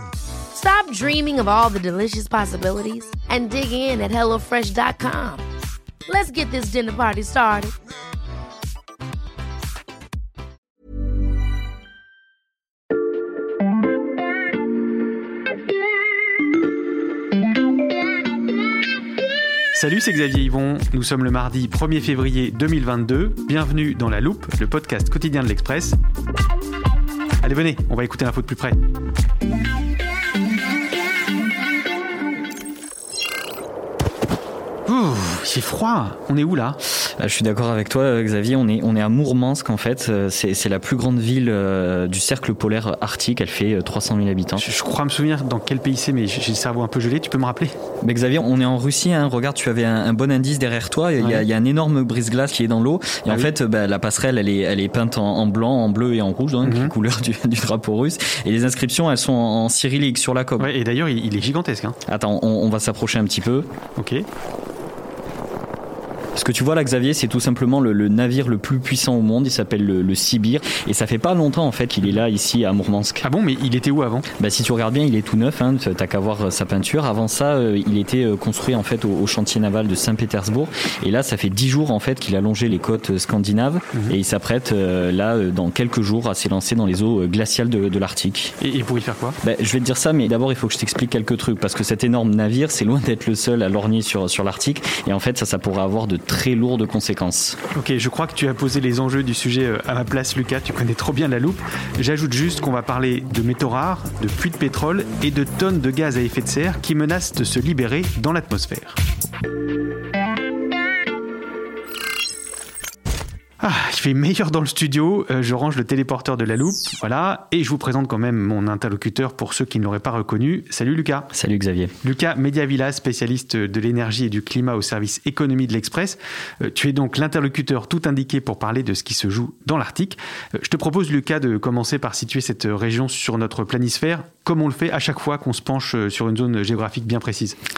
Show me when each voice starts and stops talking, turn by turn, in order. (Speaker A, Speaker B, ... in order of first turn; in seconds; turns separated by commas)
Speaker A: 0.5-5.4, Speaker A: 6.1-7.7, Speaker B: 19.7-25.9, Speaker B: 27.4-28.8, Speaker B: 34.9-36.8, Speaker C: 37.2-44.6, Speaker B: 44.6-47.7, Speaker C: 48.0-60.7, Speaker B: 56.6-56.9, Speaker B: 60.6-61.9, Speaker C: 62.1-63.7, Speaker B: 64.0-64.2, Speaker C: 66.3-73.2, Speaker B: 73.2-74.2, Speaker C: 74.4-88.5, Speaker B: 88.6-89.4, Speaker C: 89.4-97.6, Speaker B: 97.8-109.0, Speaker B: 113.6-121.3, Speaker C: 121.3-121.9, Speaker B: 122.0-137.6